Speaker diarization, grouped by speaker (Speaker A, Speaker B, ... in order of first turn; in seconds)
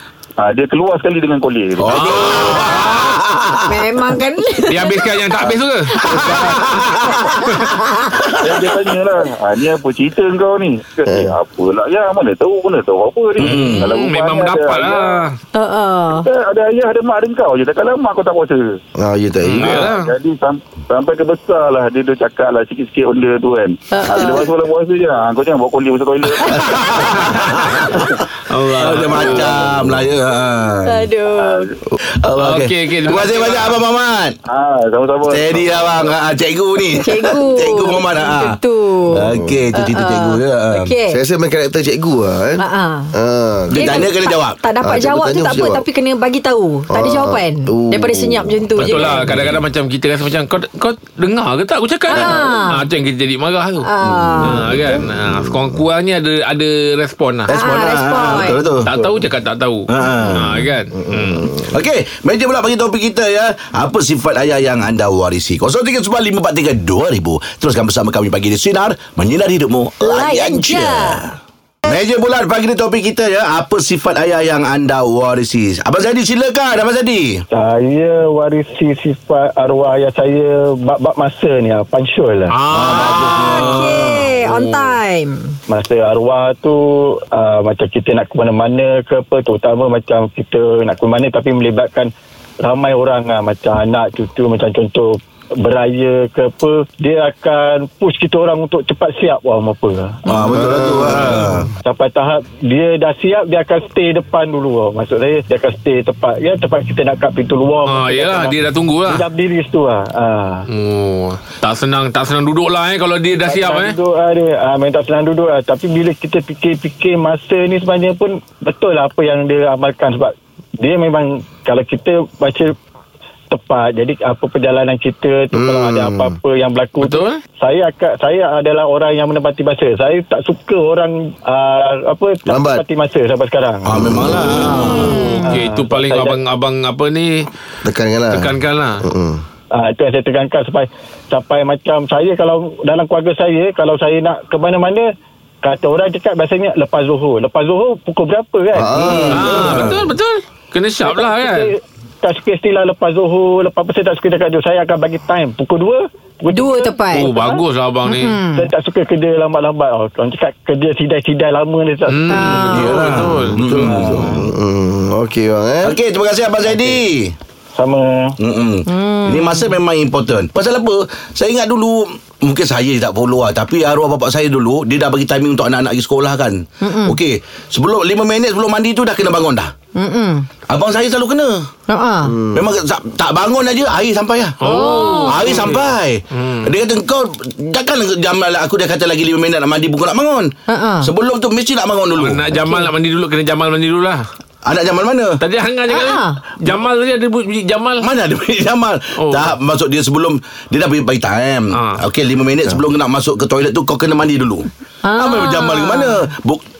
Speaker A: 0.4-2.5, 8.4-15.2, 16.1-18.8, 19.6-27.0, 31.4-31.7, 34.5-36.1
Speaker B: 1.8-3.7, 6.2-7.3, 8.2-8.5, 13.4-13.9, 26.4-28.1, 28.8-31.1, 32.1-34.4, 35.3-38.6, 39.1-40.9, 43.7-44.6, 54.2-54.6, 57.5-58.9, 59.9-60.6, 61.4-71.3, 71.8-77.4, 82.8-84.8, 100.2-101.7, 133.9-135.3, 149.1-149.5, 162.7-164.5, 165.8-167.4, 168.4-179.7, 180.7-181.7, 182.5-192.5, 194.7-195.4, 198.0-206.7
Speaker C: 1.9-3.2, 4.7-7.7, 13.4-15.4, 19.4-20.1, 26.9-27.7, 28.5-29.7, 32.4-33.8, 48.8-53.9, 54.4-57.5, 58.8-61.5, 82.5-84.1, 101.1-101.5, 107.8-109.3, 110.7-114.0, 127.0-127.4, 134.9-137.5, 138.3-139.0, 149.3-151.7, 157.1-158.4, 162.1-163.7, 184.6-186.7, 192.2-194.2, 195.4-198.1, 199.2-199.6, 201.7-202.0
Speaker D: 3.7-5.1, 5.9-6.4, 7.0-8.3, 15.5-16.3, 23.9-24.5, 30.9-31.7, 37.0-39.2, 39.7-41.2, 42.6-43.1, 43.8-49.2, 52.1-52.9, 53.8-54.6, 57.5-58.7, 70.0-71.3, 83.6-85.6, 134.6-135.5, 156.5-157.3, 158.1-158.7, 162.3-162.9, 168.9-169.7, 176.8-177.2, 180.0-180.5, 181.9-182.3, 184.6-185.5, 190.7-191.1, 195.9-196.6, 205.0-206.2
Speaker E: 11.1-11.3, 19.0-19.8, 39.1-39.7, 41.1-44.1, 44.8-45.9, 46.9-49.4, 54.8-55.8, 61.1-61.8, 82.7-83.7, 100.5-101.7, 125.5-126.3, 132.5-132.8, 133.9-134.5, 137.8-139.4, 148.8-150.1, 163.3-166.0, 182.2-182.7
Speaker F: 77.5-82.5, 85.7-100.4, 101.8-110.7, 113.5-122.7, 123.5-134.1, 135.3-136.4, 139.7-145.1, 145.6-150.0, 151.0-157.6, 158.5-163.3, 163.8-164.4, 166.7-167.0, 167.7-168.3